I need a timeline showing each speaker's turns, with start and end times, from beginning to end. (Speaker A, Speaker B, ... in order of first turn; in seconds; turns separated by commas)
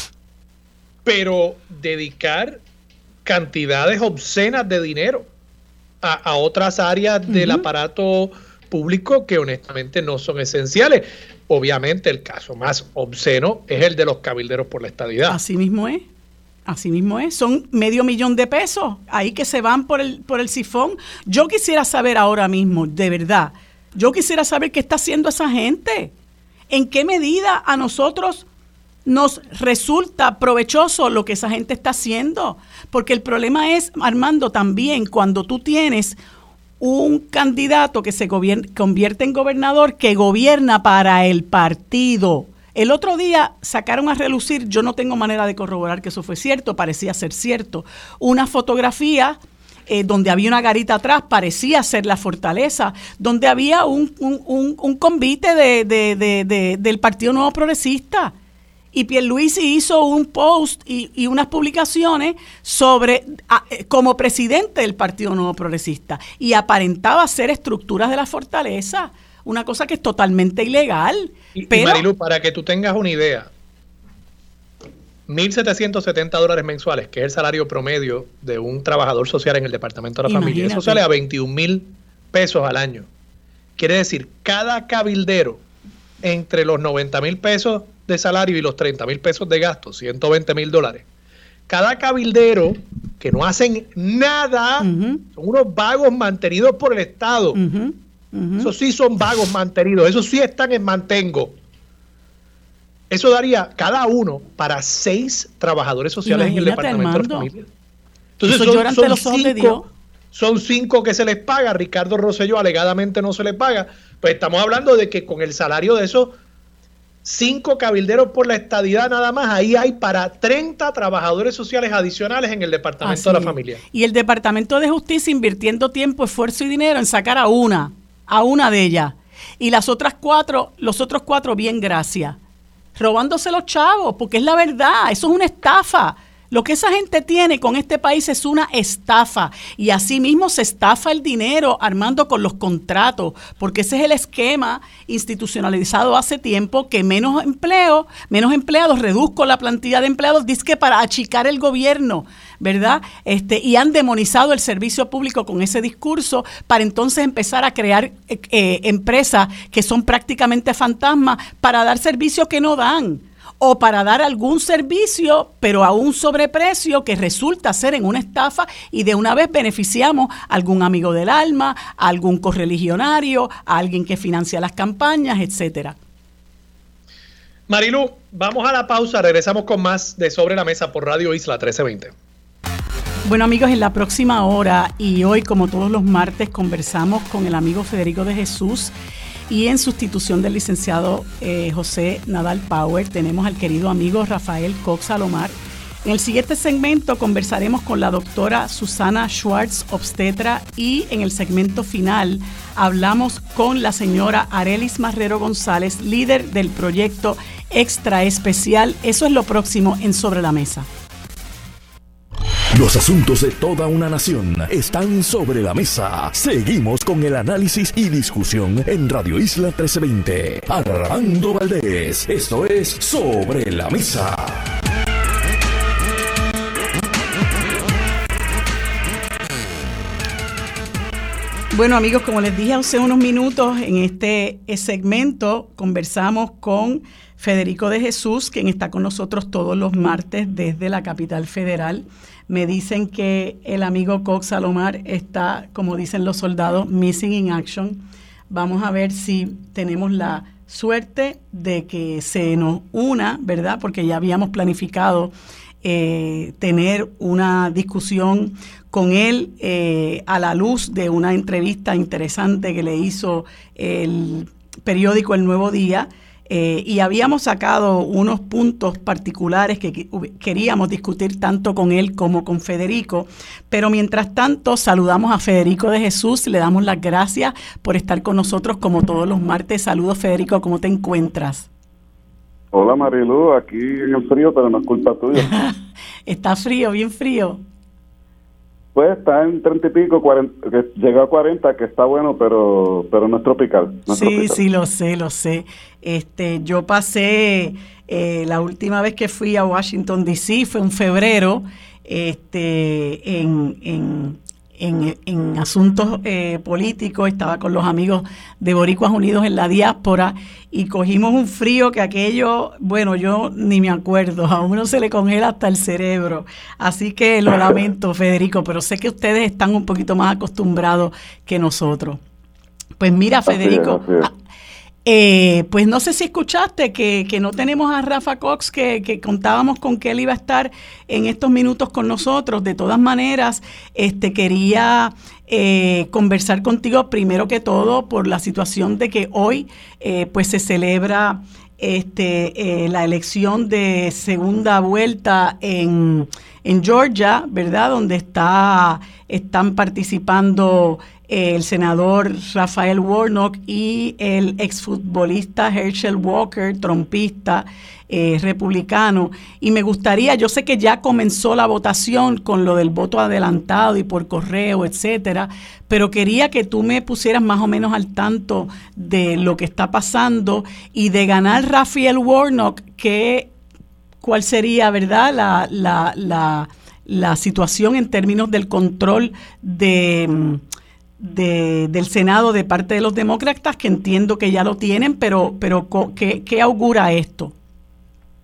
Speaker A: 1.1-2.6, Speaker A: 3.2-5.3, Speaker A: 6.0-15.4, Speaker B: 7.3-7.7, Speaker B: 15.3-16.1, Speaker B: 16.7-26.1, Speaker B: 26.7-28.5, Speaker B: 29.1-36.2, Speaker B: 36.8-49.4, Speaker B: 49.9-58.3, Speaker B: 58.9-72.1, Speaker A: 71.5-73.5, Speaker A: 75.3-83.1, Speaker B: 80.3-81.0, Speaker A: 83.8-85.6, Speaker A: 86.2-91.1, Speaker A: 91.7-97.6, Speaker B: 94.8-95.2, Speaker B: 97.5-98.7, Speaker A: 98.6-101.6, Speaker A: 103.1-107.7, Speaker B: 106.2-107.5, Speaker A: 108.4-109.8, Speaker B: 108.5-109.9, Speaker A: 110.3-116.4, Speaker A: 117.2-123.8, Speaker B: 123.0-132.4, Speaker B: 133.0-176.0, Speaker A: 177.7-182.1, Speaker B: 183.3-188.9, Speaker B: 189.5-195.5, Speaker B: 196.1-210.9, Speaker C: 212.7-224.7, Speaker B: 231.7-255.3, Speaker B: 255.8-281.7, Speaker D: 282.7-285.5, Speaker B: 285.4-287.6, Speaker D: 288.9-294.6, Speaker B: 294.1-322.2, Speaker B: 323.0-324.3, Speaker D: 323.5-324.3, Speaker B: 325.1-373.5, Speaker B: 374.2-380.6, Speaker B: 381.2-387.5